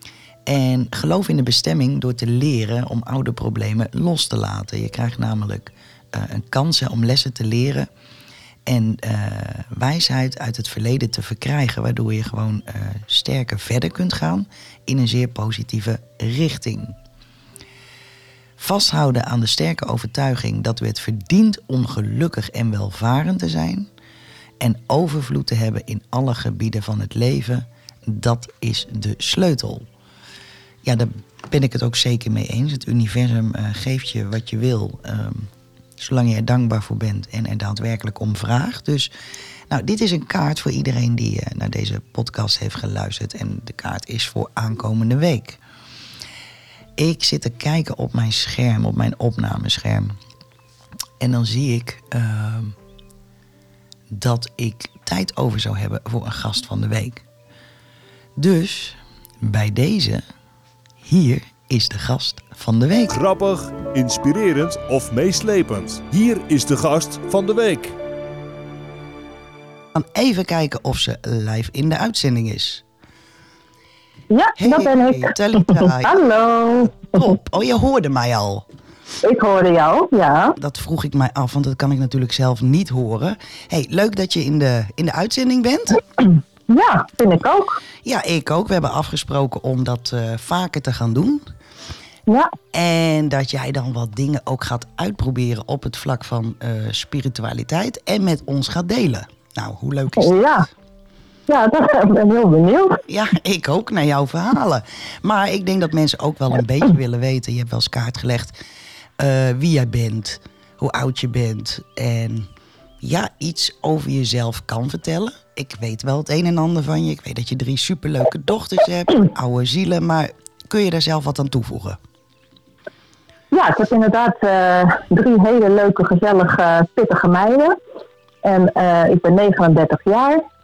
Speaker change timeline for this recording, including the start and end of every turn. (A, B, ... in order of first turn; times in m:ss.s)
0:00.5-0:07.9 A
0:08.7-0:17.0 A
0:18.6-0:23.9 A
0:24.6-0:29.9 A
0:30.8-0:35.5 A
0:36.0-0:39.1 A
0:39.7-0:45.6 A
0:47.0-0:50.2 A
0:51.2-0:52.8 A
0:54.1-0:57.2 A
0:58.4-1:00.2 A
1:01.0-1:03.2 A
1:03.1-1:08.0 B
1:09.9-1:12.8 A
1:14.3-1:17.1 C
1:14.6-1:16.2 A
1:17.1-1:18.6 A
1:19.2-1:20.6 C
1:20.6-1:26.0 A
1:26.2-1:27.8 C
1:28.0-1:31.4 A
1:32.3-1:32.5 C
1:32.7-1:40.4 A
1:40.2-1:40.7 C
1:41.5-1:43.0 C
1:43.1-1:48.6 A
1:49.2-1:52.5 A
1:53.0-2:02.0 A
2:03.5-2:07.8 C
2:08.4-2:10.4 C